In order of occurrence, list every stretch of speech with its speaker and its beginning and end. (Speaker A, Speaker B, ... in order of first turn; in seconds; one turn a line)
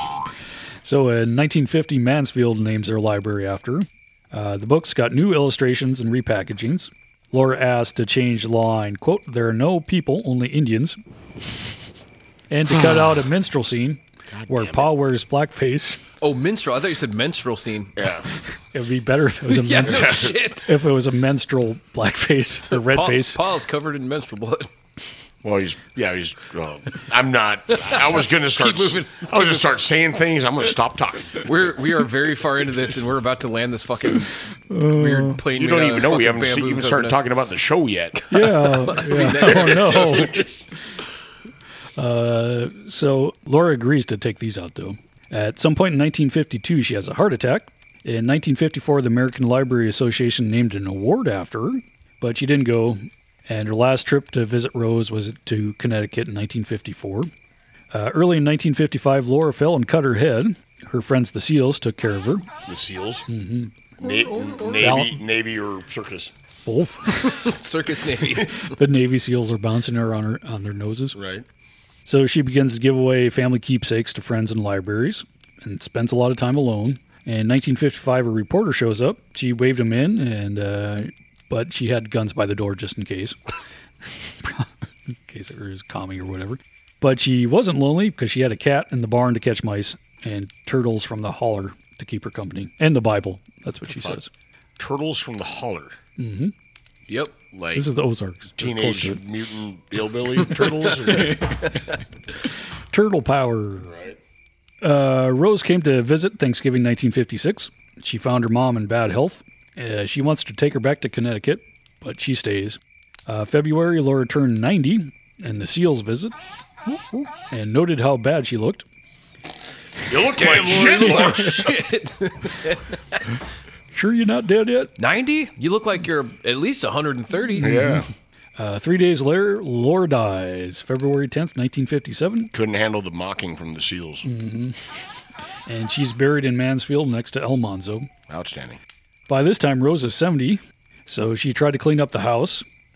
Speaker A: 0.8-11.0
Speaker A: 12.5-16.0
Speaker B: 14.3-14.9
Speaker C: 16.2-17.9
Speaker B: 18.0-18.3
Speaker A: 18.7-23.4
Speaker C: 19.5-20.7
Speaker B: 19.8-20.3
Speaker C: 22.7-24.7
Speaker B: 25.4-31.5
Speaker C: 27.8-29.8
Speaker C: 31.4-37.2
Speaker A: 34.7-35.4
Speaker B: 35.5-38.2
Speaker C: 38.2-40.4
Speaker A: 38.3-40.5
Speaker B: 39.5-40.2
Speaker A: 42.0-57.3
Speaker A: 57.9-62.5
Speaker B: 62.6-63.2
Speaker A: 63.3-63.7
Speaker B: 64.0-66.3
Speaker C: 64.0-64.9
Speaker A: 64.8-65.2
Speaker A: 66.7-67.5
Speaker C: 67.2-68.7
Speaker A: 68.4-71.2
Speaker B: 71.1-71.5
Speaker A: 72.0-83.4
Speaker A: 84.2-94.3
Speaker B: 93.9-94.2
Speaker B: 94.8-96.0
Speaker A: 96.2-96.5
Speaker C: 97.1-97.3
Speaker B: 97.5-97.9
Speaker A: 97.7-99.2
Speaker B: 98.6-101.4
Speaker A: 100.8-101.9
Speaker A: 102.9-103.9
Speaker B: 103.8-104.2
Speaker A: 104.8-116.3
Speaker A: 116.8-118.8
Speaker B: 120.1-121.7
Speaker C: 120.3-123.2
Speaker A: 120.8-121.5
Speaker A: 123.9-124.9
Speaker C: 125.0-127.8
Speaker A: 127.5-128.1
Speaker B: 127.6-128.1
Speaker A: 128.6-132.5
Speaker B: 132.5-134.3
Speaker A: 134.2-134.8
Speaker A: 135.7-138.1
Speaker B: 138.3-138.8
Speaker A: 139.3-142.6